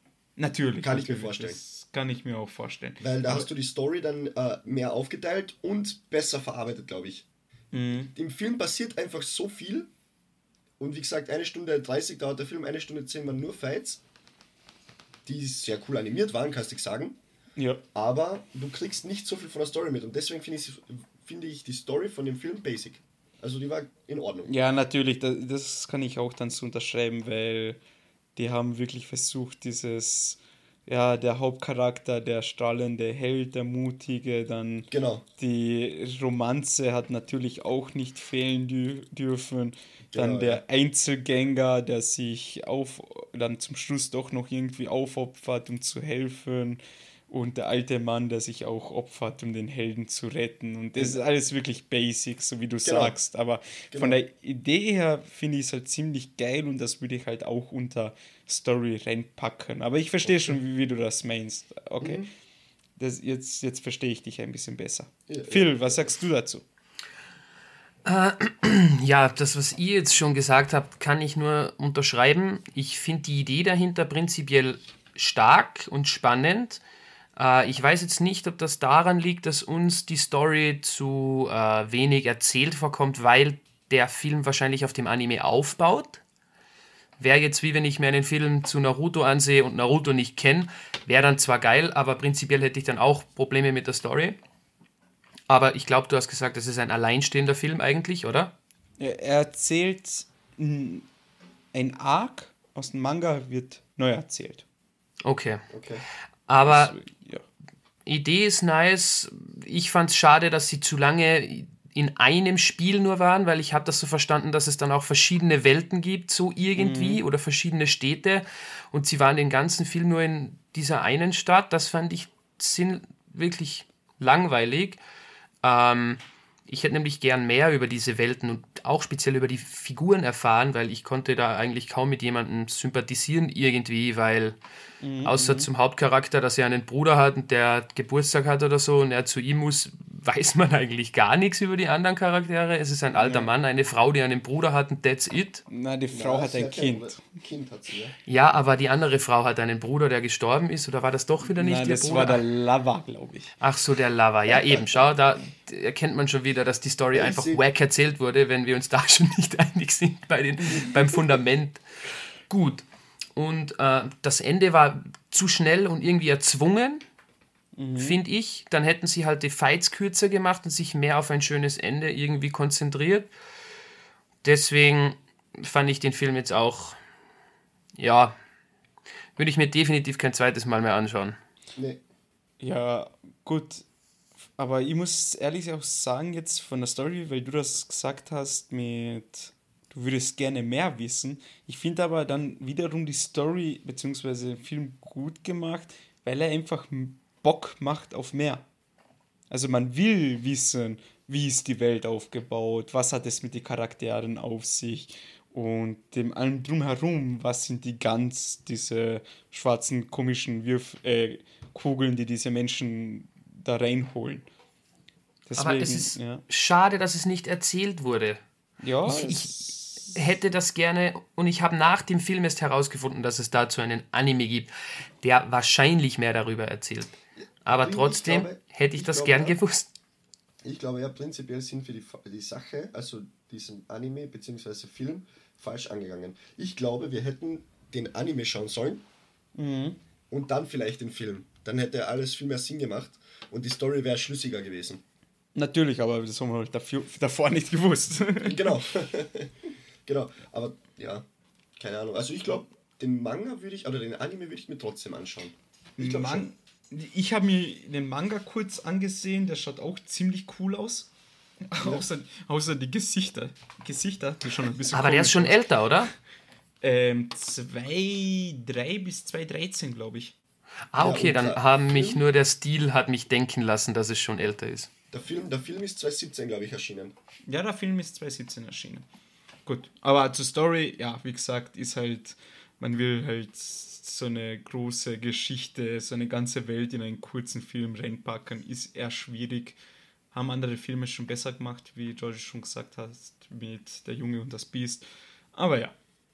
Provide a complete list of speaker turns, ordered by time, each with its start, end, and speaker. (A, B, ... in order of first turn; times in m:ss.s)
0:00.4-0:03.5 A
0:00.8-0:01.6 B
0:03.0-0:07.3 B
0:07.7-0:08.1 A
0:08.1-0:09.9 B
0:10.8-0:14.0 B
0:15.2-0:17.2 B
0:17.6-0:17.8 A
0:18.0-0:24.5 B
0:24.5-0:27.8 A
0:28.4-1:02.3 A
0:34.9-0:35.2 B
0:40.1-0:40.6 B
0:52.8-0:53.2 B
0:53.9-0:54.2 B
1:00.3-1:00.6 B
1:02.0-1:02.3 B
1:03.0-1:06.6 A
1:05.3-1:06.1 B
1:08.0-1:16.8 C
1:17.4-1:26.2 C
1:27.2-1:34.4 C
1:35.5-1:38.6 C
1:39.0-1:41.0 A
1:41.7-1:44.6 A
1:45.2-1:45.6 C
1:45.7-1:46.0 B
1:46.5-1:47.0 C
1:46.6-1:47.4 A
1:48.0-2:05.0 C
1:56.8-1:57.2 A
2:05.6-2:14.6 C
2:15.0-2:15.7 A
2:15.2-2:25.6 C
2:23.2-2:23.5 A
2:25.7-2:27.2 A
2:26.1-2:28.1 B
2:28.3-2:32.4 C
2:31.5-2:33.6 A
2:33.6-2:41.8 C
2:37.1-2:37.6 B
2:42.5-2:42.8 C
2:43.4-2:47.0 C
2:47.7-2:48.2 A
2:48.0-2:53.3 C
2:54.4-2:57.0 C
2:58.0-2:58.3 C
2:59.4-3:01.4 C
3:01.8-3:02.0 B
3:02.6-3:03.8 A
3:04.6-3:18.6 A
3:19.5-3:34.5 A
3:35.5-3:36.4 A
3:35.6-3:38.4 C
3:38.8-3:40.3 A
3:39.0-3:49.9 C
3:47.7-3:49.6 B
3:50.6-3:59.0 B
3:59.6-4:00.0 A
4:00.3-4:05.0 B
4:05.6-4:08.8 A
4:08.4-4:11.3 B
4:11.8-4:16.5 B
4:16.0-4:21.1 A
4:21.7-4:25.6 A
4:21.8-4:22.0 B
4:24.9-4:26.1 C
4:26.8-4:30.3 A
4:30.9-4:34.9 C
4:31.0-4:32.2 B
4:35.1-4:37.1 B
4:37.5-4:39.0 A
4:39.7-4:49.8 A
4:50.3-4:56.0 A